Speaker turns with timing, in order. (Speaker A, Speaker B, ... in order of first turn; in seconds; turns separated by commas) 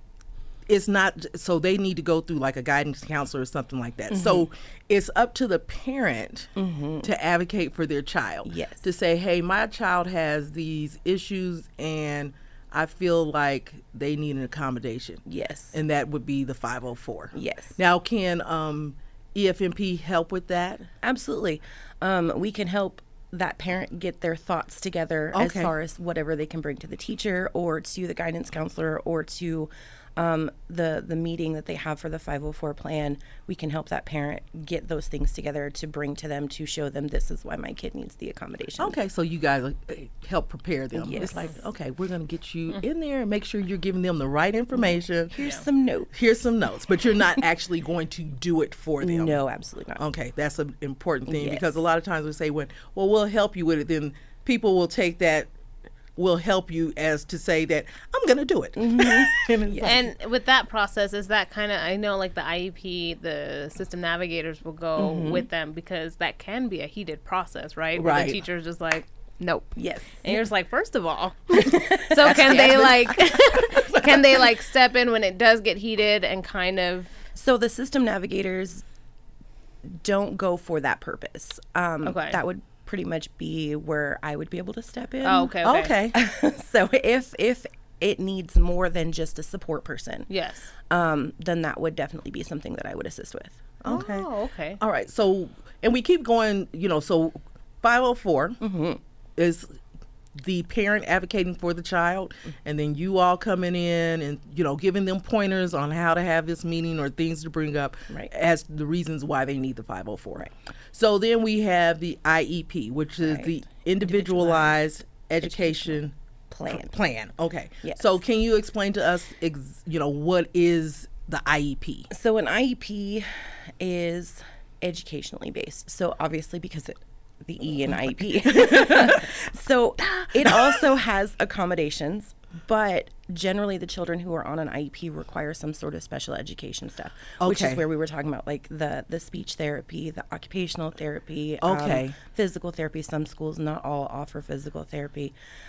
Speaker A: 0.7-6.5, Speaker B: 4.1-4.4, Speaker B: 6.5-7.1, Speaker A: 7.0-15.2, Speaker B: 8.4-8.9, Speaker B: 15.2-15.8, Speaker A: 15.7-20.9, Speaker B: 17.3-17.8, Speaker B: 21.0-39.0, Speaker A: 25.3-25.7, Speaker A: 38.8-45.5, Speaker B: 40.9-41.5, Speaker B: 45.3-46.1, Speaker A: 46.1-49.4, Speaker B: 49.0-50.0, Speaker A: 50.0-55.5, Speaker B: 51.3-51.8, Speaker A: 56.2-60.1, Speaker B: 58.8-60.0, Speaker C: 59.8-77.2, Speaker B: 65.0-65.5, Speaker A: 68.0-68.4, Speaker B: 69.7-70.4, Speaker B: 71.5-73.1, Speaker A: 72.2-74.3, Speaker B: 77.3-78.8, Speaker B: 79.9-85.5, Speaker C: 82.0-82.4, Speaker C: 85.2-85.9, Speaker A: 85.6-86.1, Speaker B: 86.1-90.3, Speaker C: 90.3-90.7, Speaker B: 90.9-93.6, Speaker A: 93.8-94.3, Speaker C: 93.8-94.8, Speaker A: 94.8-98.6, Speaker B: 98.6-99.0, Speaker A: 99.4-99.8, Speaker A: 100.3-116.1, Speaker B: 113.2-114.8, Speaker B: 115.4-116.0, Speaker B: 116.5-116.9, Speaker A: 116.7-122.1, Speaker B: 117.8-118.2, Speaker B: 122.1-123.3, Speaker B: 123.8-145.3, Speaker A: 128.3-129.3, Speaker A: 130.0-130.8, Speaker A: 137.4-137.8, Speaker A: 141.6-142.2